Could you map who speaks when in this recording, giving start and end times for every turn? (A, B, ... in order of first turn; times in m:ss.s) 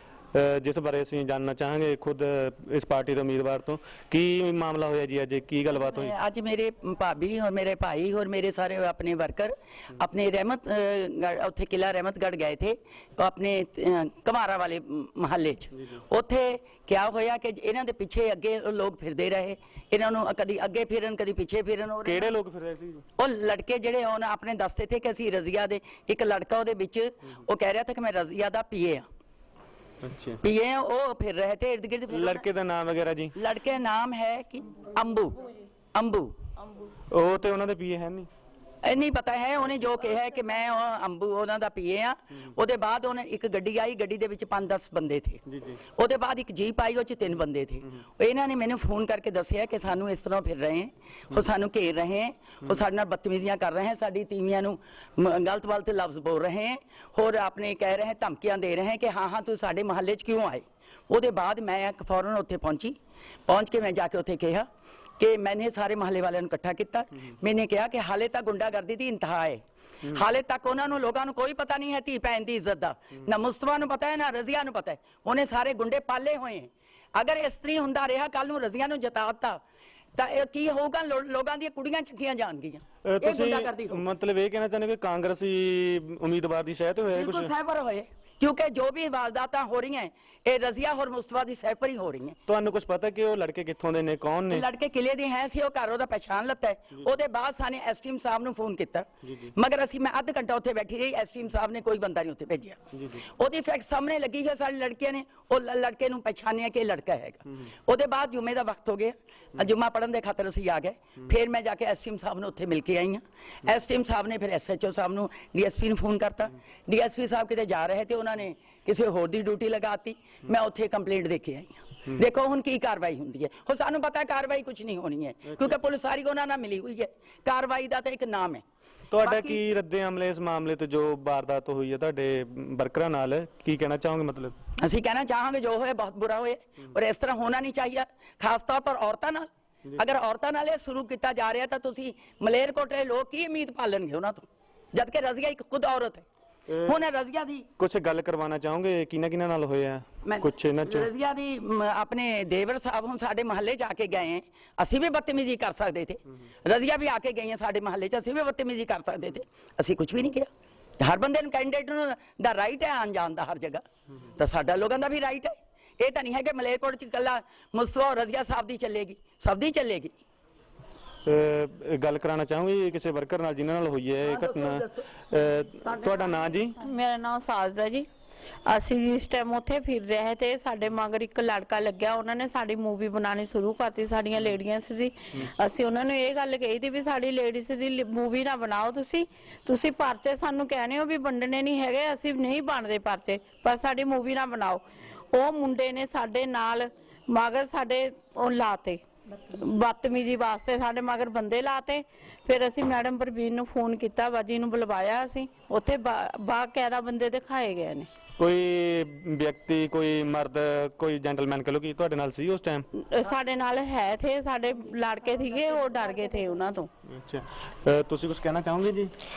0:00.3-0:06.1 A
0:05.7-0:22.3 B
0:22.0-0:23.0 A
0:23.2-0:29.1 B
0:30.0-0:30.4 A
0:30.4-0:32.5 B
0:32.1-0:33.3 A
0:33.4-0:36.4 B
0:37.1-0:38.3 A
0:38.8-0:45.4 B
0:45.5-0:45.8 A
0:46.0-1:03.0 B
1:03.5-1:04.7 B
1:05.2-1:19.6 B
1:20.2-1:24.0 B
1:23.0-1:27.5 A
1:27.1-1:32.4 B
1:32.5-1:34.6 A
1:34.5-2:08.6 B
1:39.2-1:39.5 A
1:42.9-1:43.2 A
2:05.5-2:05.8 A
2:09.1-2:14.6 A
2:09.2-2:09.6 B
2:14.8-2:26.2 B
2:26.7-2:27.0 A
2:26.8-2:27.7 B
2:27.8-2:31.1 A
2:30.2-2:50.1 B
2:51.2-2:56.8 A
2:54.2-2:55.0 B
2:56.8-2:58.1 C
2:58.7-3:28.1 C
3:28.4-3:32.9 A
3:33.0-3:36.9 C
3:37.1-3:39.1 A